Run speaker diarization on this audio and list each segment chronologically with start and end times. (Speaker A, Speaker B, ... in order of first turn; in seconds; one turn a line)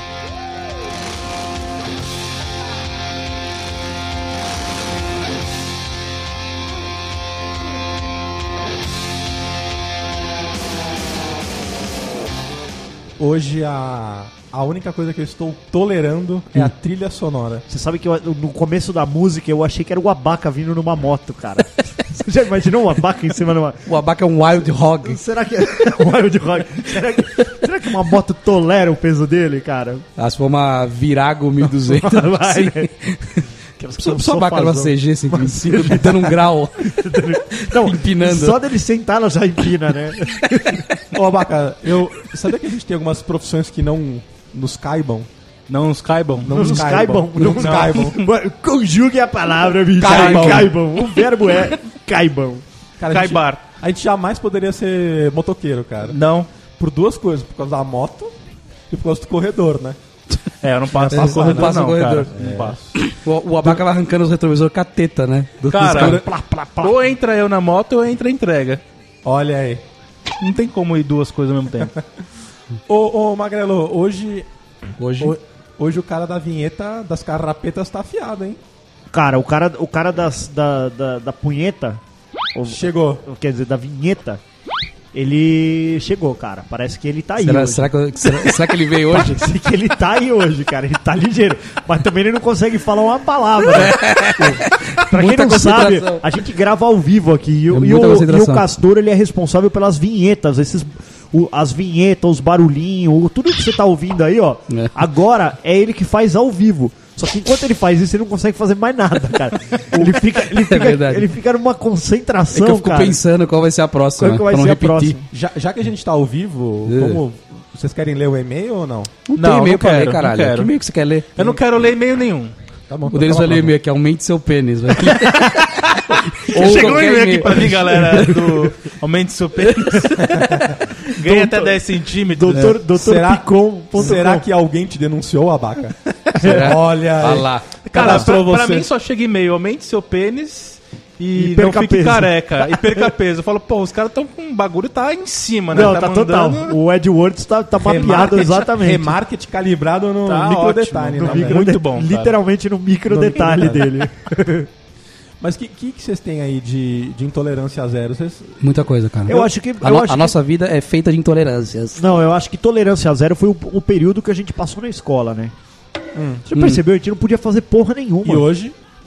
Speaker A: 13.2-17.6
Speaker B: 17.7-23.9
Speaker C: 23.9-25.2
Speaker B: 25.0-30.0
Speaker C: 30.2-33.4
Speaker B: 31.6-32.9
Speaker B: 33.8-40.9
Speaker C: 34.0-38.6
Speaker A: 41.1-45.3
Speaker D: 45.7-46.7
Speaker A: 46.4-48.2
Speaker B: 46.5-52.6
Speaker D: 47.6-48.1
Speaker A: 50.0-50.8
Speaker D: 50.1-50.8
Speaker A: 53.0-56.2
Speaker D: 53.1-53.6
Speaker D: 56.1-56.5
Speaker A: 56.8-58.3
Speaker A: 58.9-60.0
Speaker D: 60.6-62.8
Speaker A: 60.9-63.0
Speaker C: 61.1-62.3
Speaker C: 62.9-66.2
Speaker D: 65.7-66.2
Speaker A: 65.8-66.3
Speaker B: 66.0-67.0
Speaker D: 66.8-68.8
Speaker A: 69.2-69.8
Speaker D: 70.4-72.0
Speaker A: 72.9-74.5
Speaker C: 75.0-75.3
Speaker A: 75.2-78.6
Speaker B: 79.1-82.0
Speaker B: 82.5-84.4
Speaker A: 82.7-83.2
Speaker B: 85.1-88.5
Speaker C: 87.4-89.4
Speaker B: 89.1-113.2
Speaker C: 93.6-96.2
Speaker C: 97.7-98.7
Speaker C: 110.0-111.3
Speaker C: 112.5-115.2
Speaker B: 114.2-115.3
Speaker A: 115.3-119.2
Speaker C: 116.9-117.2
Speaker C: 119.3-121.4
Speaker D: 119.3-120.7
Speaker D: 121.3-122.5
Speaker A: 122.9-123.8
Speaker C: 123.1-128.2
Speaker D: 125.2-125.5
Speaker D: 126.5-130.3
Speaker B: 126.5-128.7
Speaker A: 126.7-128.3
Speaker A: 130.2-130.8
Speaker B: 130.6-134.4
Speaker D: 131.1-132.7
Speaker A: 132.9-138.9
Speaker B: 136.3-136.8
Speaker C: 136.4-138.2
Speaker D: 137.8-146.8
Speaker B: 141.3-143.0
Speaker B: 145.7-149.2
Speaker A: 147.8-151.7
Speaker D: 150.2-152.3
Speaker B: 151.2-154.7
Speaker A: 153.1-154.0
Speaker A: 155.4-158.6
Speaker C: 158.6-162.1
Speaker B: 159.3-160.3
Speaker B: 162.0-165.5
Speaker A: 166.1-166.4
Speaker B: 166.4-168.5
Speaker C: 166.5-166.8
Speaker A: 168.2-168.8